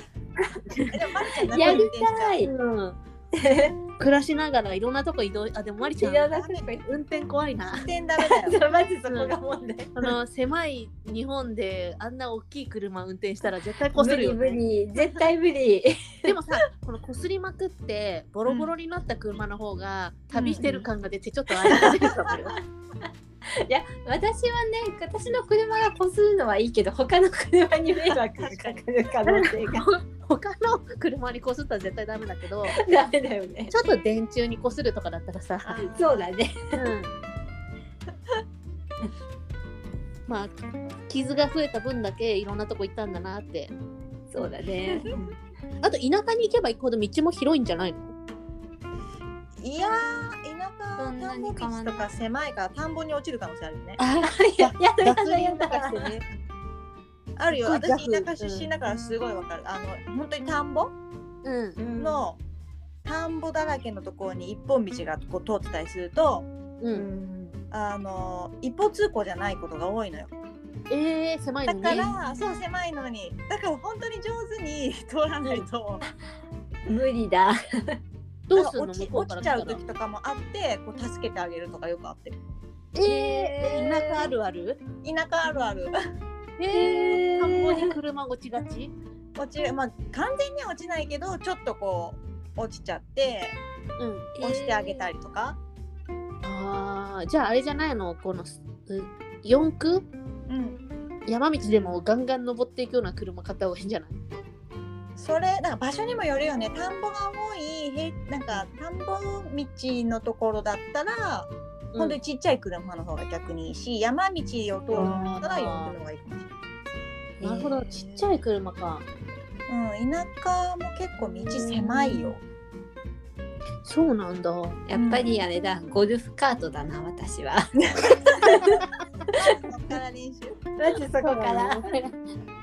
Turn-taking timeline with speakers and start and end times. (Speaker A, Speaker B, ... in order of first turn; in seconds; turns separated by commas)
Speaker A: 0.9-2.4, Speaker B: 1.5-2.5, Speaker C: 1.6-1.9, Speaker C: 2.4-3.0, Speaker B: 3.3-3.8, Speaker C: 4.0-6.3, Speaker B: 5.8-6.9, Speaker A: 6.3-6.7, Speaker C: 6.8-7.9, Speaker A: 7.8-8.6, Speaker B: 8.2-10.1, Speaker C: 9.1-9.3, Speaker C: 10.0-14.6, Speaker B: 14.0-16.3, Speaker C: 16.2-22.6, Speaker A: 18.5-18.7, Speaker A: 20.3-20.6, Speaker B: 20.6-20.9, Speaker B: 23.5-29.9, Speaker A: 28.4-28.8, Speaker C: 29.2-32.8, Speaker B: 32.7-33.7, Speaker C: 33.7-35.9, Speaker A: 35.6-36.3, Speaker B: 35.9-36.8, Speaker C: 36.8-37.1, Speaker C: 40.3-40.6, Speaker C: 41.1-43.7, Speaker B: 44.3-45.4, Speaker C: 45.8-48.1, Speaker A: 49.6-54.0, Speaker B: 51.0-52.1, Speaker C: 54.0-56.2, Speaker B: 54.2-56.2, Speaker A: 57.4-60.9, Speaker C: 57.5-58.7, Speaker C: 61.4-61.8, Speaker B: 61.8-62.3, Speaker A: 62.0-62.4, Speaker A: 63.0-66.5, Speaker C: 66.8-67.1, Speaker B: 66.9-67.6, Speaker A: 67.7-70.3, Speaker C: 70.9-72.1, Speaker A: 71.7-76.0, Speaker B: 76.9-78.0, Speaker C: 78.5-79.8, Speaker A: 78.5-82.4, Speaker C: 82.9-84.8, Speaker B: 83.0-84.2, Speaker A: 85.0-85.9, Speaker C: 86.6-88.9, Speaker B: 86.7-87.9, Speaker A: 89.4-93.6, Speaker C: 94.0-94.3, Speaker B: 94.4-95.0, Speaker A: 94.4-95.6, Speaker C: 96.4-100.1, Speaker A: 100.5-100.8, Speaker C: 101.3-104.2, Speaker A: 105.2-116.5, Speaker C: 114.9-116.0, Speaker B: 115.0-115.3, Speaker B: 117.4-118.2, Speaker C: 117.4-119.1, Speaker A: 119.7-122.4, Speaker C: 121.2-122.3, Speaker C: 123.8-124.8, Speaker B: 124.9-128.8, Speaker A: 124.9-125.4, Speaker A: 127.8-130.6, Speaker B: 130.8-131.9, Speaker C: 131.2-132.2